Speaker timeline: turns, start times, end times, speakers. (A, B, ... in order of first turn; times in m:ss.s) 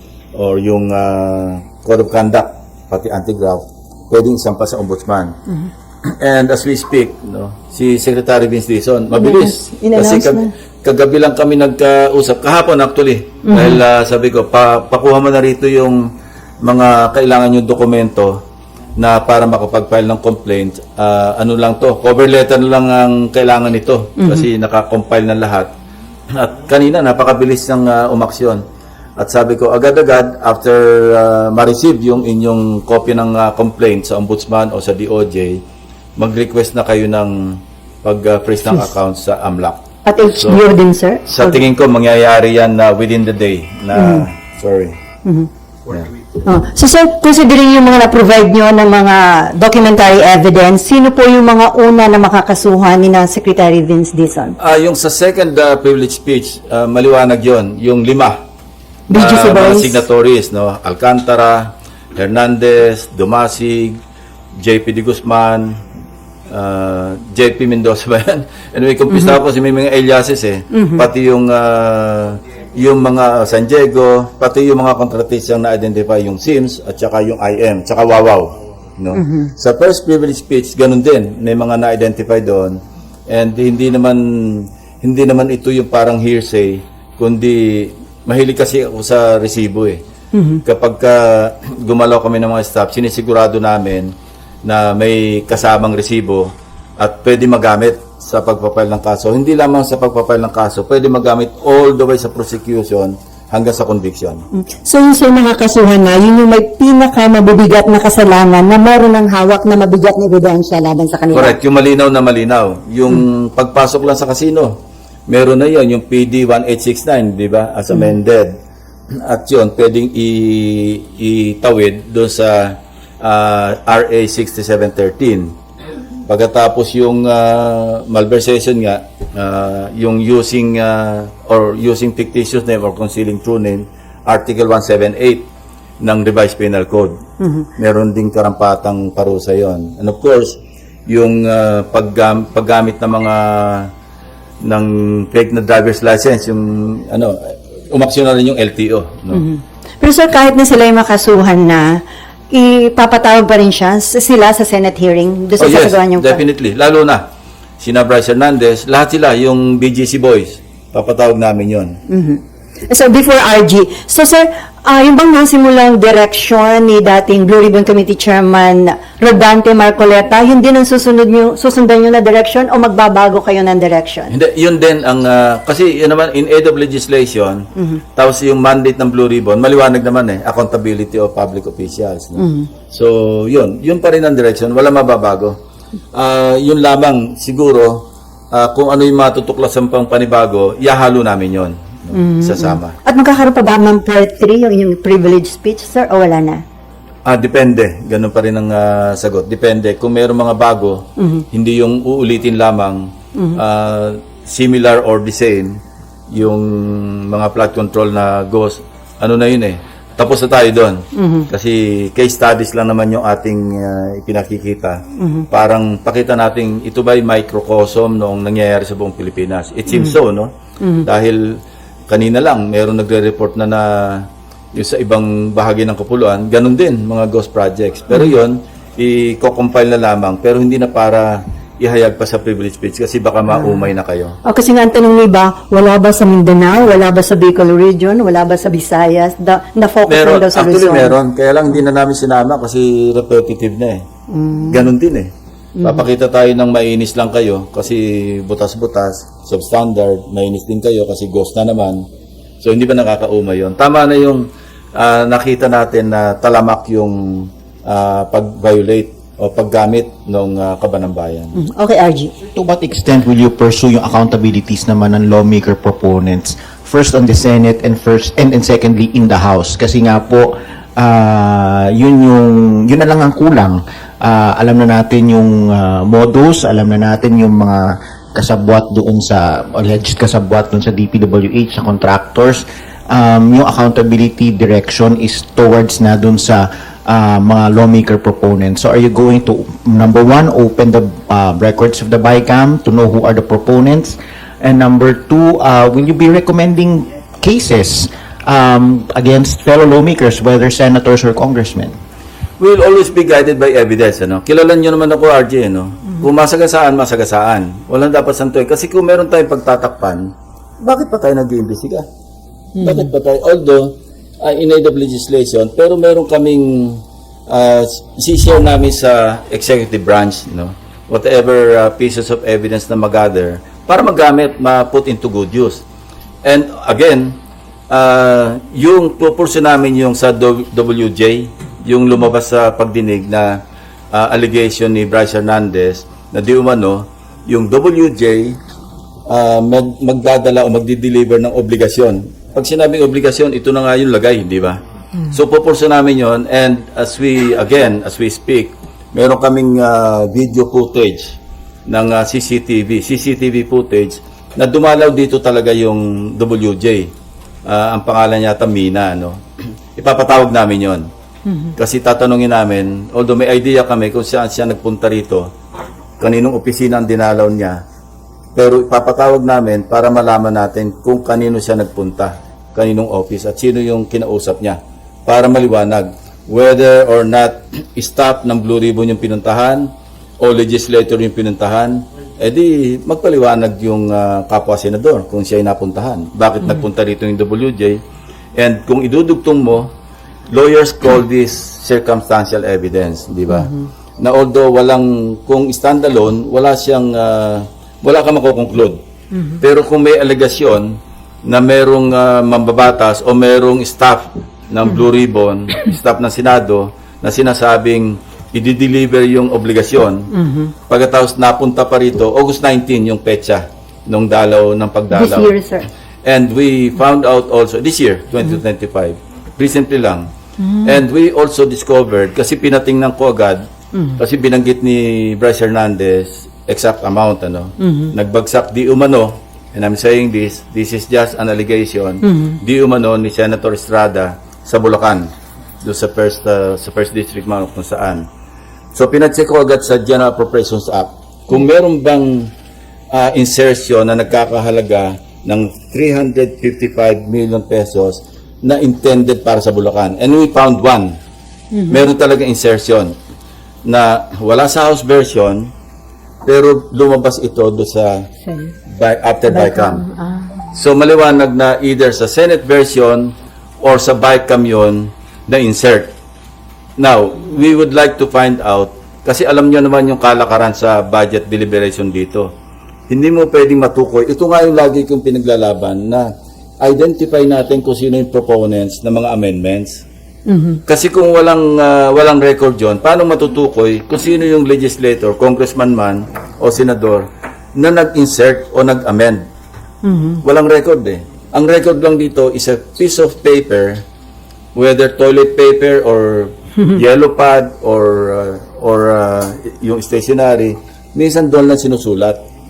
0:00.3-0:05.3 A
0:06.1-0:16.0 A
0:09.2-0:10.5 B
0:13.4-0:13.8 B
0:16.6-0:18.4 A
0:19.0-0:25.7 A
0:24.2-0:24.4 B
0:26.3-0:28.6 A
0:29.2-0:35.6 A
0:36.2-0:39.8 A
0:40.0-0:41.6 B
0:41.3-0:45.0 A
0:43.9-0:44.3 B
0:46.4-0:54.6 B
0:54.6-0:58.4 A
0:59.1-1:00.0 B
0:59.1-1:04.0 A
1:04.6-1:05.7 A
1:06.5-1:22.8 A
1:09.1-1:09.4 B
1:10.7-1:11.0 B
1:19.1-1:19.5 B
1:23.3-1:30.0 A
1:30.3-1:30.6 B
1:30.6-1:34.1 A
1:34.6-1:44.4 A
1:44.5-1:51.6 B
1:51.3-1:58.5 A
1:59.2-2:05.5 A
2:06.3-2:15.5 A
2:16.0-2:17.1 A
2:17.4-2:17.7 B
2:17.8-2:23.9 A
2:24.6-2:27.4 A
2:27.9-2:29.4 A
2:29.3-2:36.4 B
2:35.6-2:37.2 A
2:37.8-2:42.0 A
2:42.1-2:54.3 B
2:54.3-3:05.6 A
2:57.8-2:58.0 B
3:02.4-3:02.7 B
3:06.1-3:12.9 A
3:12.1-3:16.6 B
3:17.2-3:25.8 A
3:21.2-3:21.4 B
3:26.3-3:41.6 A
3:31.1-3:31.5 B
3:35.2-3:35.4 B
3:40.8-3:41.1 B
3:42.1-3:54.4 A
3:53.5-3:53.8 B
3:54.4-4:01.1 B
4:00.1-4:04.0 A
4:04.3-4:04.9 B
4:04.7-4:05.3 A
4:05.8-4:12.0 A
4:12.6-4:21.5 A
4:21.5-4:22.3 B
4:22.4-5:01.9 C
5:02.6-5:12.0 A
5:12.8-5:13.1 B
5:12.8-5:25.8 A
5:26.4-5:27.4 A
5:27.9-5:33.6 A
5:34.1-5:38.6 A
5:39.3-5:44.8 A
5:45.3-5:57.1 A
5:57.6-5:59.4 A
6:00.0-6:01.1 A
6:01.5-6:01.7 B
6:01.8-6:05.5 A
6:06.2-6:07.8 A
6:08.6-6:28.0 A
6:28.6-6:29.9 A
6:30.5-6:39.0 A
6:33.5-6:33.8 B
6:39.3-6:39.6 B
6:39.6-6:50.3 A
6:50.3-6:50.7 B
6:50.9-6:55.5 A
6:55.1-6:55.8 B
6:56.2-7:00.3 A
7:00.6-7:01.0 B
7:00.8-7:15.3 A
7:07.8-7:08.1 B
7:12.2-7:12.6 B
7:15.8-7:18.2 A
7:18.9-7:22.5 A
7:23.1-7:31.2 A
7:31.7-7:32.0 B
7:31.9-7:33.1 A
7:33.8-7:35.7 A
7:36.4-7:38.3 A
7:38.4-7:38.7 B
7:38.9-7:40.0 A
7:39.5-7:40.6 B
7:40.7-7:46.1 A
7:47.0-7:52.5 A
7:53.1-7:56.3 A
7:56.8-8:00.0 A
8:00.5-8:00.8 B
8:00.9-8:09.4 A
8:10.0-8:10.4 B
8:10.4-8:14.0 A
8:14.7-8:22.4 A